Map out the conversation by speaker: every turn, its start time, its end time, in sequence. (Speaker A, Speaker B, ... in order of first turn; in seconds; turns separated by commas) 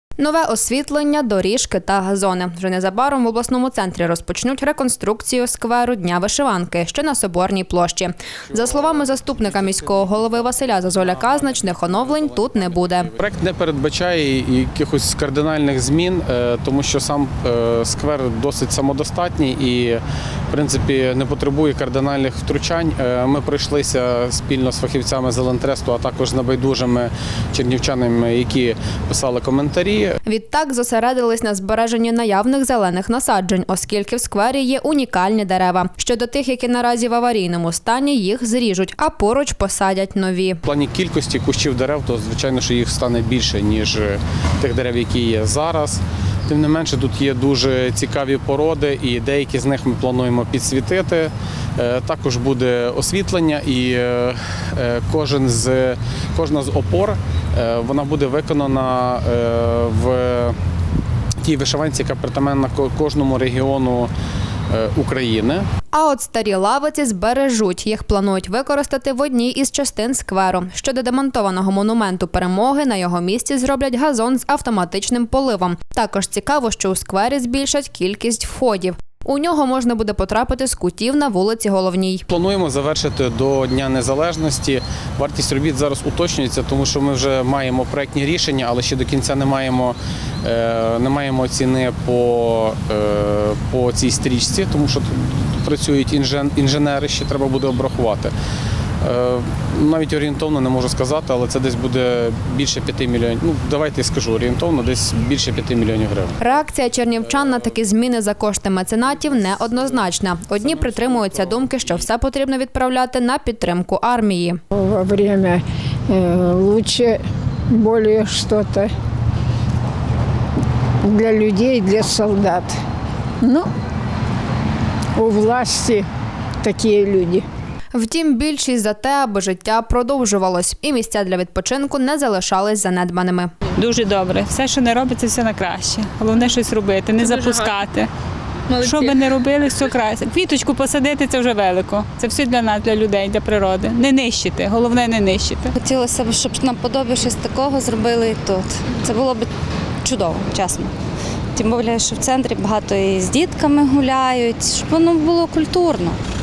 Speaker A: 0.2-13.1, Speaker B: 8.4-30.2, Speaker A: 30.3-40.6, Speaker B: 40.6-60.6, Speaker B: 61.4-64.1, Speaker B: 64.7-65.7, Speaker A: 65.9-82.2, Speaker B: 82.3-98.3, Speaker B: 99.0-106.7, Speaker A: 106.4-114.6, Speaker B: 107.2-107.7, Speaker B: 109.0-112.1, Speaker C: 114.7-118.9, Speaker C: 121.0-122.7, Speaker C: 123.4-123.7, Speaker C: 125.2-126.1, Speaker C: 126.6-127.5, Speaker A: 127.9-133.5, Speaker D: 133.8-138.1, Speaker D: 138.7-145.7, Speaker E: 145.8-149.5, Speaker E: 150.0-150.9, Speaker E: 151.6-156.2